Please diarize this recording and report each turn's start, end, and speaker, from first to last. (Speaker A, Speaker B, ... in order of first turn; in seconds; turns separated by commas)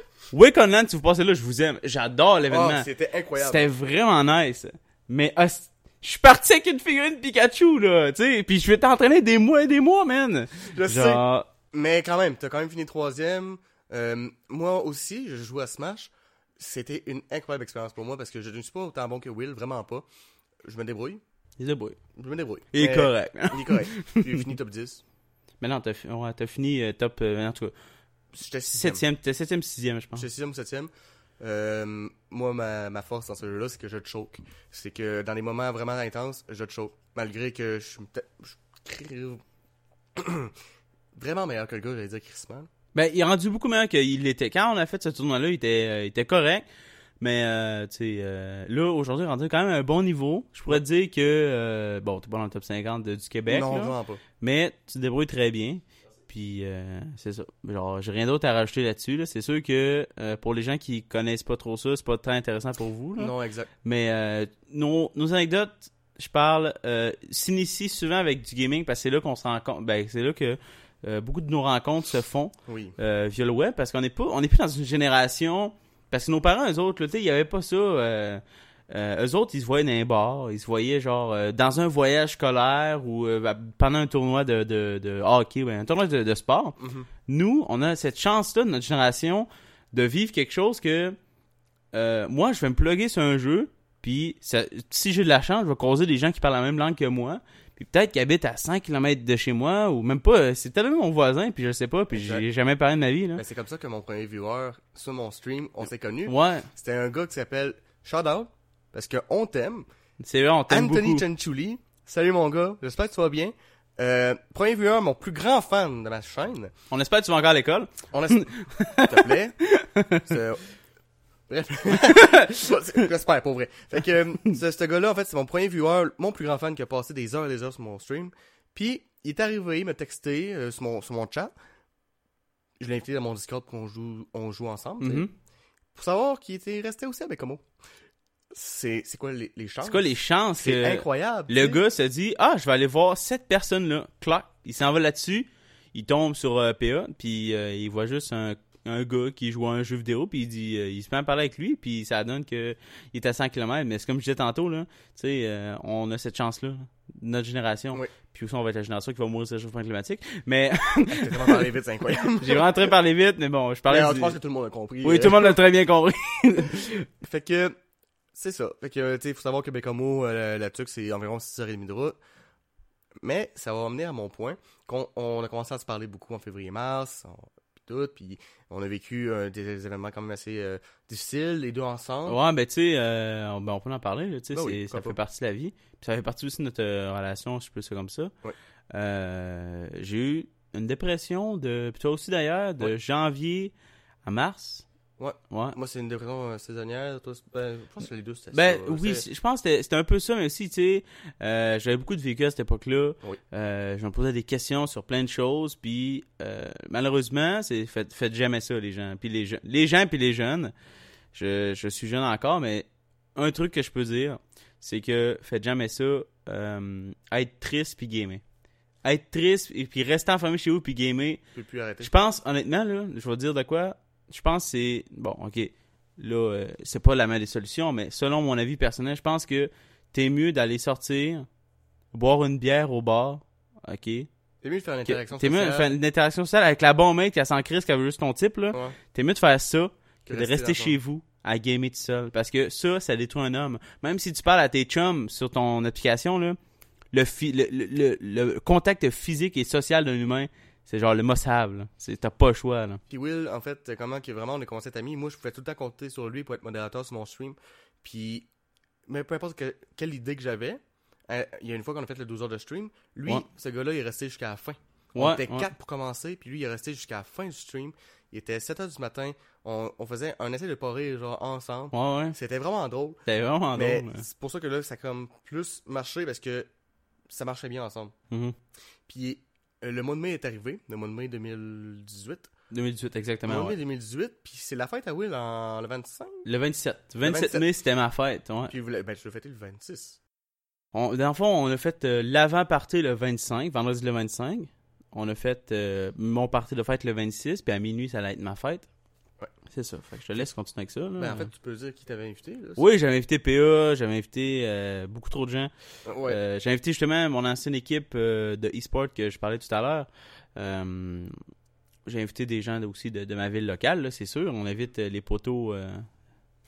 Speaker A: 0.3-11.5, Speaker B: 2.5-3.6, Speaker B: 10.7-20.1, Speaker B: 20.6-21.2, Speaker A: 21.6-22.0, Speaker B: 22.1-25.0, Speaker A: 22.7-24.2, Speaker A: 25.6-27.7, Speaker B: 28.3-29.0, Speaker A: 28.7-30.3, Speaker B: 30.1-39.4, Speaker B: 40.1-40.5, Speaker B: 41.1-42.7, Speaker A: 42.9-46.6, Speaker A: 47.2-63.3, Speaker B: 53.5-54.2, Speaker B: 63.2-63.7, Speaker A: 63.8-91.2, Speaker B: 72.7-73.0, Speaker B: 86.8-87.1, Speaker A: 91.9-103.4, Speaker B: 102.1-102.5, Speaker B: 103.4-109.9, Speaker A: 106.3-106.7, Speaker A: 110.2-111.2, Speaker B: 110.7-116.7, Speaker A: 116.9-120.4, Speaker B: 118.1-118.5, Speaker B: 119.0-119.6, Speaker B: 120.2-120.6, Speaker B: 121.5-131.5, Speaker A: 122.0-122.8, Speaker B: 132.8-135.3, Speaker A: 135.0-135.3, Speaker B: 135.9-137.6, Speaker B: 138.5-141.8, Speaker A: 139.8-161.6, Speaker B: 161.1-162.9, Speaker A: 162.2-164.4, Speaker B: 163.9-165.6, Speaker A: 165.0-167.1, Speaker B: 167.2-167.8, Speaker B: 168.3-172.2, Speaker B: 173.2-182.4, Speaker A: 182.3-188.3, Speaker B: 184.5-185.2, Speaker A: 188.9-193.7, Speaker A: 194.2-194.9, Speaker B: 195.2-199.2, Speaker A: 195.5-195.8, Speaker A: 198.5-210.7, Speaker A: 211.3-218.4, Speaker A: 219.0-221.4, Speaker B: 221.6-222.1, Speaker A: 222.0-231.5, Speaker A: 232.1-234.3, Speaker B: 234.6-235.9, Speaker A: 235.1-246.6, Speaker B: 238.7-239.0, Speaker B: 240.3-241.0, Speaker A: 247.1-253.0, Speaker B: 253.1-258.5, Speaker B: 259.1-273.2, Speaker A: 265.1-265.7, Speaker A: 271.9-272.4, Speaker A: 273.3-274.2, Speaker B: 273.8-276.7, Speaker B: 277.3-278.1, Speaker A: 278.3-278.6, Speaker B: 279.1-282.5, Speaker A: 282.7-283.8, Speaker B: 283.4-286.4, Speaker A: 286.4-288.7, Speaker B: 287.2-287.6, Speaker B: 288.7-290.2, Speaker A: 290.9-298.9, Speaker A: 299.7-301.5, Speaker B: 301.2-302.9, Speaker A: 302.8-305.7, Speaker B: 306.1-306.4, Speaker A: 306.3-311.4, Speaker A: 312.1-316.1